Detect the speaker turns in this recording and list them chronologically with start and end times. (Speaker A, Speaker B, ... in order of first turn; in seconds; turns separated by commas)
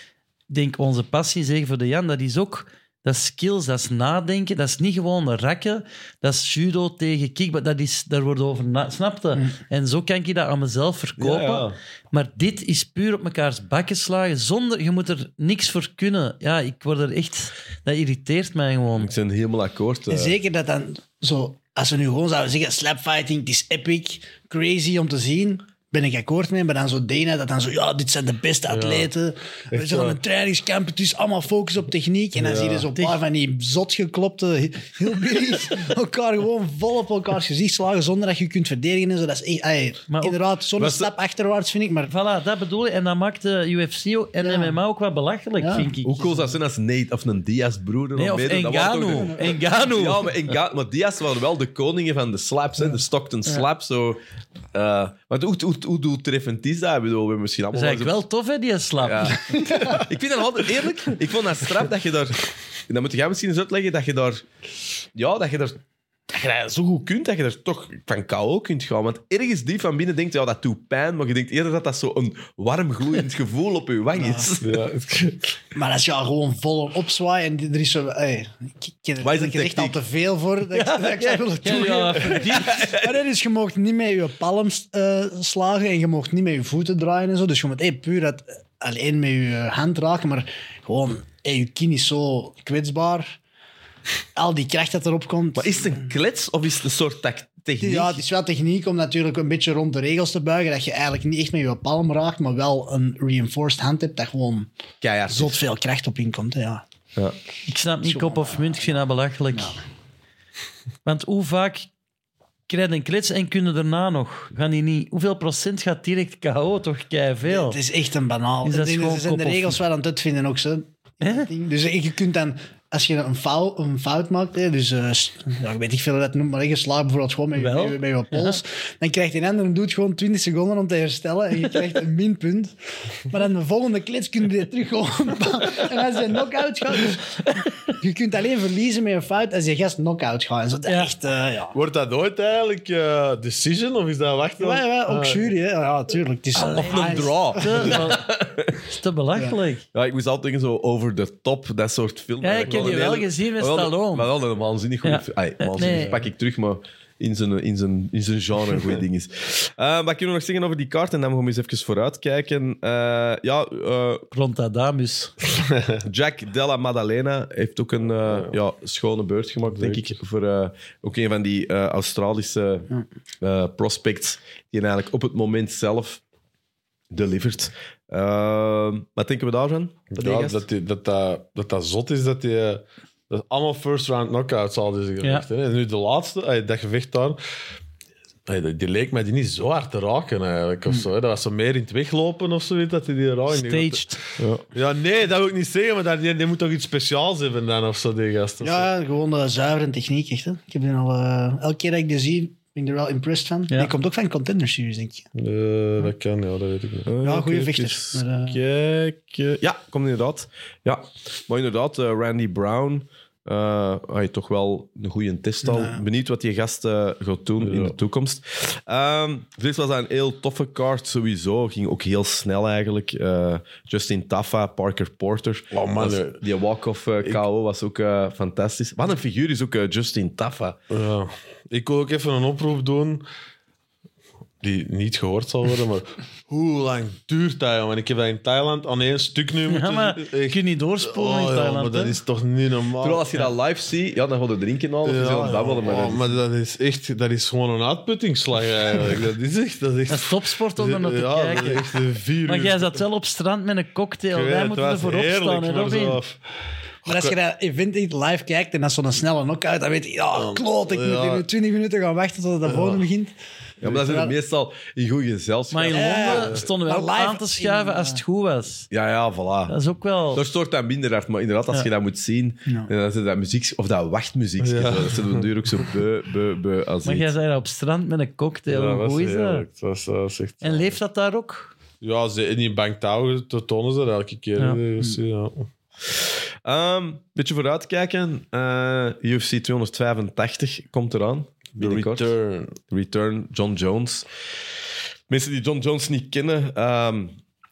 Speaker A: 0.5-19.1, Speaker B: 11.2-11.7, Speaker B: 19.0-20.4, Speaker C: 20.1-42.1, Speaker D: 28.7-29.1, Speaker D: 29.7-30.2, Speaker D: 32.4-32.9, Speaker A: 40.1-40.4, Speaker B: 40.8-41.1, Speaker A: 42.1-46.4, Speaker C: 44.4-44.8, Speaker C: 45.6-45.9, Speaker B: 46.0-54.2, Speaker A: 48.2-50.5, Speaker C: 49.1-49.7, Speaker B: 54.7-58.2, Speaker A: 57.7-59.5, Speaker B: 59.0-64.4, Speaker C: 59.5-60.0, Speaker B: 65.2-65.8, Speaker B: 66.3-74.8, Speaker C: 74.1-74.5, Speaker D: 74.6-75.5, Speaker C: 75.8-93.4, Speaker B: 79.2-80.0, Speaker A: 80.7-82.8, Speaker B: 82.5-83.2, Speaker C: 94.4-96.1, Speaker B: 95.5-98.2, Speaker C: 97.8-104.7, Speaker B: 105.0-105.6, Speaker C: 105.3-106.8, Speaker A: 107.7-109.8, Speaker C: 108.0-109.8, Speaker A: 111.0-111.9, Speaker A: 112.7-117.8, Speaker C: 117.5-132.8, Speaker A: 118.6-119.8, Speaker A: 121.2-121.5, Speaker A: 127.6-128.6, Speaker C: 133.3-141.8, Speaker A: 137.5-137.9, Speaker A: 140.8-141.1, Speaker D: 141.7-145.5, Speaker C: 144.6-148.1, Speaker A: 146.6-148.3, Speaker B: 146.6-148.8, Speaker A: 148.9-149.8, Speaker B: 149.9-164.3, Speaker A: 152.4-154.3, Speaker D: 152.7-153.0, Speaker A: 155.0-156.2, Speaker D: 155.8-156.2, Speaker A: 164.3-165.3, Speaker D: 165.6-166.0, Speaker B: 166.1-172.9, Speaker D: 169.7-170.2, Speaker B: 173.4-176.2, Speaker B: 177.1-180.6, Speaker D: 180.1-187.4, Speaker D: 188.5-194.1, Speaker A: 193.5-194.2, Speaker D: 194.7-198.9, Speaker C: 198.6-205.3, Speaker D: 205.3-207.1, Speaker B: 207.1-230.8, Speaker C: 207.2-208.6, Speaker C: 215.6-216.0, Speaker D: 217.6-217.9, Speaker D: 225.7-226.4, Speaker D: 230.9-233.2, Speaker D: 234.6-243.2, Speaker A: 239.7-242.2, Speaker B: 243.0-246.3, Speaker D: 245.1-253.0, Speaker A: 250.1-251.8, Speaker A: 252.5-256.2, Speaker D: 254.3-256.4, Speaker D: 257.1-257.4, Speaker C: 257.1-264.3, Speaker D: 260.3-261.4, Speaker D: 262.6-263.1, Speaker B: 263.8-266.5, Speaker A: 265.7-268.9, Speaker C: 265.9-268.2, Speaker B: 268.9-269.7, Speaker A: 269.7-270.4, Speaker B: 270.3-277.3, Speaker D: 274.6-275.5, Speaker A: 277.1-279.6, Speaker D: 278.7-281.0, Speaker A: 280.6-281.7, Speaker D: 282.0-285.7, Speaker B: 286.2-292.3, Speaker D: 291.8-292.8, Speaker B: 292.9-294.3, Speaker B: 295.3-297.4